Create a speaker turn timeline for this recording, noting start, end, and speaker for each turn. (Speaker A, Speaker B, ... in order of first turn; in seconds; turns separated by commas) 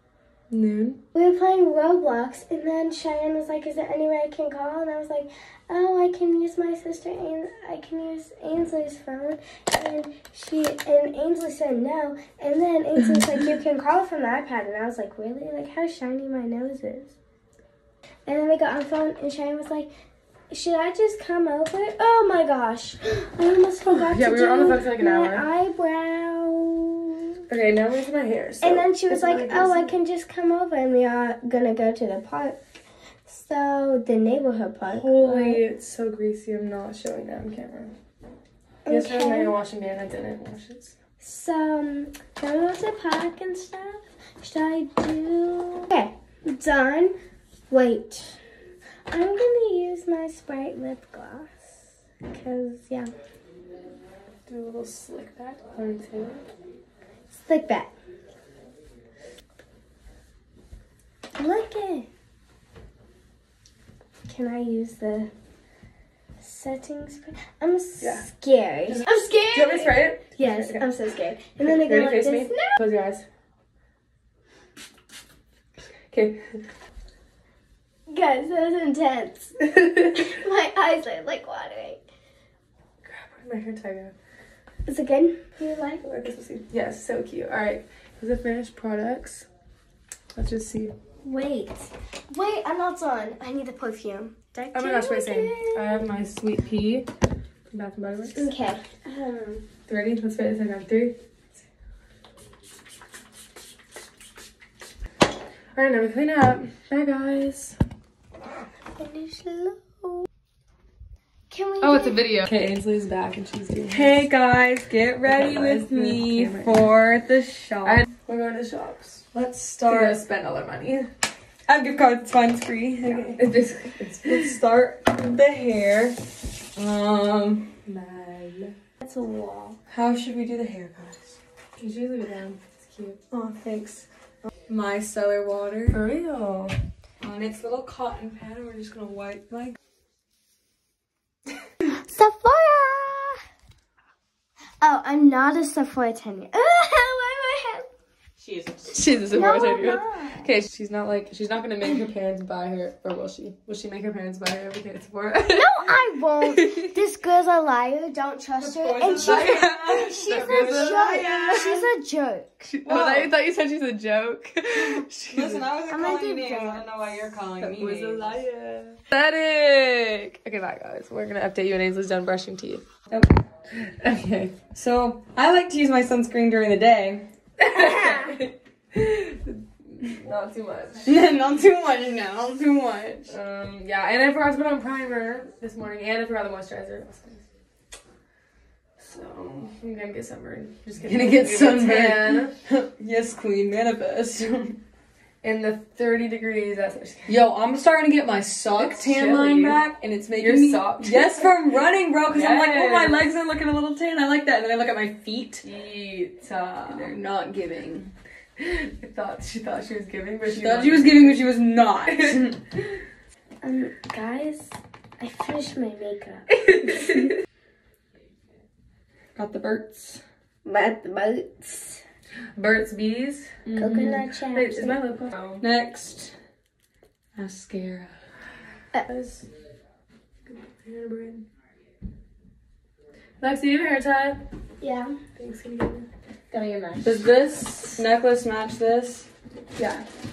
Speaker A: 0.5-1.0, Speaker B: 1.1-17.2, Speaker B: 18.3-19.9, Speaker B: 20.5-27.2, Speaker A: 23.8-25.5, Speaker A: 27.5-30.0, Speaker B: 28.6-32.6, Speaker B: 33.3-35.6, Speaker A: 34.9-38.0, Speaker B: 38.9-39.5, Speaker A: 38.9-41.0, Speaker B: 41.2-47.1, Speaker B: 47.7-48.4, Speaker B: 49.1-51.8, Speaker B: 52.3-53.1, Speaker A: 54.5-56.5, Speaker B: 57.4-57.9, Speaker B: 61.4-62.1, Speaker B: 64.3-65.3, Speaker B: 66.4-72.8, Speaker A: 68.0-68.3, Speaker A: 69.5-70.9, Speaker A: 71.6-73.3, Speaker A: 76.1-76.4, Speaker B: 78.1-82.0, Speaker A: 83.0-84.1, Speaker B: 84.9-86.0, Speaker A: 86.0-89.5, Speaker A: 90.3-90.9, Speaker B: 91.2-96.0, Speaker A: 94.7-97.1, Speaker A: 97.7-98.5, Speaker B: 98.3-99.7, Speaker A: 99.9-101.2, Speaker A: 105.8-107.8, Speaker B: 108.9-110.3, Speaker B: 111.5-112.4, Speaker A: 111.8-114.3, Speaker C: 113.9-118.0, Speaker A: 115.2-116.9, Speaker A: 117.8-119.3, Speaker C: 119.3-120.2, Speaker A: 119.9-121.1, Speaker C: 121.7-123.5, Speaker A: 123.0-124.6, Speaker C: 124.2-127.8, Speaker A: 127.8-128.8, Speaker B: 129.0-129.8, Speaker C: 129.9-131.4, Speaker A: 131.8-133.2, Speaker C: 133.3-134.1, Speaker C: 134.7-136.0, Speaker A: 135.9-136.8, Speaker C: 137.2-139.8, Speaker B: 141.8-143.4, Speaker B: 144.8-147.9, Speaker C: 148.4-149.2, Speaker A: 148.9-155.9, Speaker B: 149.3-150.5, Speaker B: 155.5-162.7, Speaker A: 156.5-156.9, Speaker C: 158.6-161.9, Speaker A: 159.1-161.8, Speaker A: 162.7-165.7, Speaker C: 162.9-163.3, Speaker C: 164.8-168.8, Speaker B: 165.9-166.9, Speaker A: 167.6-172.9, Speaker A: 173.8-174.6, Speaker C: 174.7-177.3, Speaker A: 177.6-181.2, Speaker B: 177.8-178.2, Speaker C: 181.1-183.3, Speaker A: 183.3-187.5, Speaker A: 189.0-192.6, Speaker C: 191.0-194.8, Speaker A: 195.4-197.4, Speaker C: 197.3-205.7, Speaker A: 198.7-199.8, Speaker A: 200.4-201.6, Speaker A: 202.3-203.3, Speaker A: 205.6-207.1, Speaker C: 206.8-208.1, Speaker A: 208.6-211.5, Speaker C: 210.5-212.6, Speaker A: 212.1-212.4, Speaker B: 213.6-217.3, Speaker C: 219.4-220.2, Speaker B: 220.7-222.0, Speaker A: 222.6-225.7, Speaker C: 223.7-224.2, Speaker B: 223.8-225.0, Speaker C: 225.6-226.3, Speaker C: 227.4-228.2, Speaker A: 229.1-229.5, Speaker A: 230.5-231.4, Speaker A: 233.4-234.4, Speaker B: 234.8-235.2, Speaker A: 235.4-236.1, Speaker B: 236.5-237.2, Speaker A: 237.0-238.0, Speaker C: 237.8-239.3, Speaker A: 239.8-240.1